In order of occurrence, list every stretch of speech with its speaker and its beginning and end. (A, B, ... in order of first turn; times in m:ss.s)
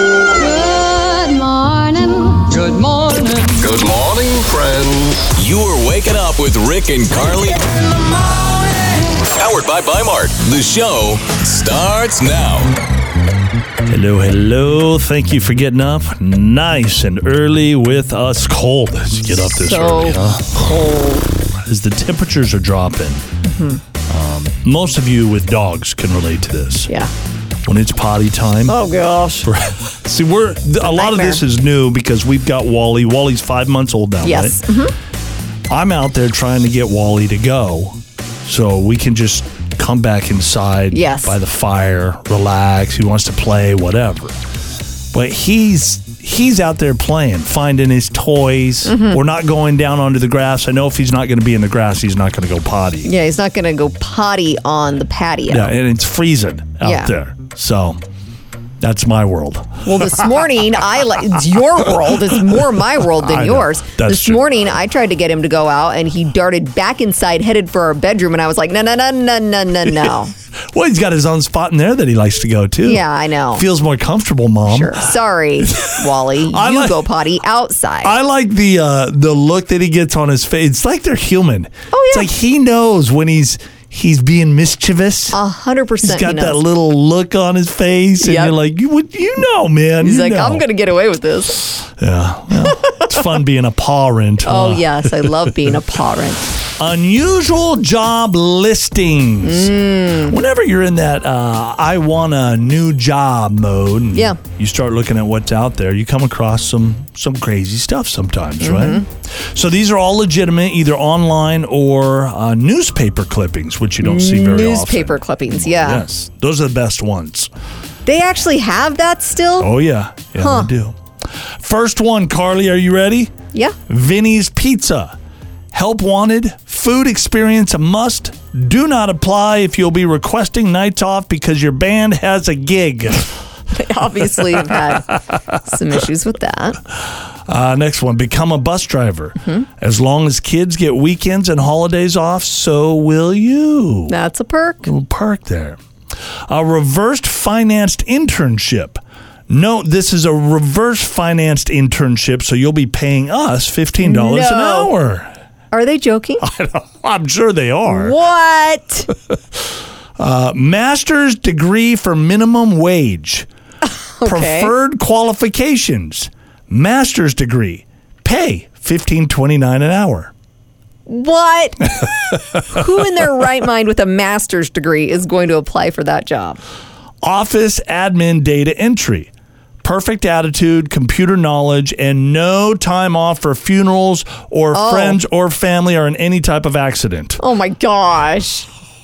0:00.3-0:03.7 A
0:03.6-0:08.3 B
0:08.4-0:08.9 A
0:09.3-0:12.8 B
0:13.9-0:20.7 C
0:19.6-0:21.3 D
0:21.6-0:23.2 C
0:23.4-0:23.8 D
0:24.1-0:26.9 C
0:27.6-0:28.8 C
0:28.7-0:29.5 D
0:29.4-0:34.6 C
0:30.8-0:31.4 D
0:34.2-0:34.9 D
0:35.7-0:44.4 C
0:40.9-0:41.4 D
0:45.1-0:53.1 C
0:48.8-0:49.2 D
0:53.0-0:55.7 D
0:55.5-0:58.0 C
0:56.8-0:57.1 D
0:58.8-1:00.2 C
0:59.8-1:10.3 D
1:03.2-1:04.4 C
1:09.9-1:17.0 C
1:12.8-1:13.6 D
1:14.7-1:18.1 D
1:18.0-1:25.4 C
1:21.9-1:22.3 D
1:25.3-1:26.6 D
1:26.0-1:30.6 C
1:28.2-1:28.5 D
1:30.0-1:31.7 D
1:31.8-1:35.8 C
1:32.6-1:33.1 D
1:34.4-1:36.5 D
1:36.8-1:57.5 C
1:39.4-1:40.4 D
1:48.6-1:49.0 D
1:54.0-1:56.0 D
1:58.0-1:59.7 D
1:59.6-2:03.3 C
2:00.4-2:00.7 D
2:03.9-2:05.2 C
2:05.7-2:13.3 C
2:13.7-2:16.8 D
2:14.4-2:15.0 C
2:17.5-2:24.2 C
2:24.1-2:24.9 D
2:24.8-2:25.8 C
2:26.5-2:35.3 C
2:34.0-2:34.9 D
2:35.7-2:36.4 D
2:36.4-2:38.2 C
2:37.9-2:39.1 D
2:40.2-2:43.5 C
2:43.8-2:44.7 D
2:44.2-2:50.3 C
2:51.1-2:52.1 D
2:52.7-2:56.6 D
2:57.2-2:59.3 C
2:59.8-3:07.4 C
3:04.7-3:05.2 D
3:07.4-3:08.7 D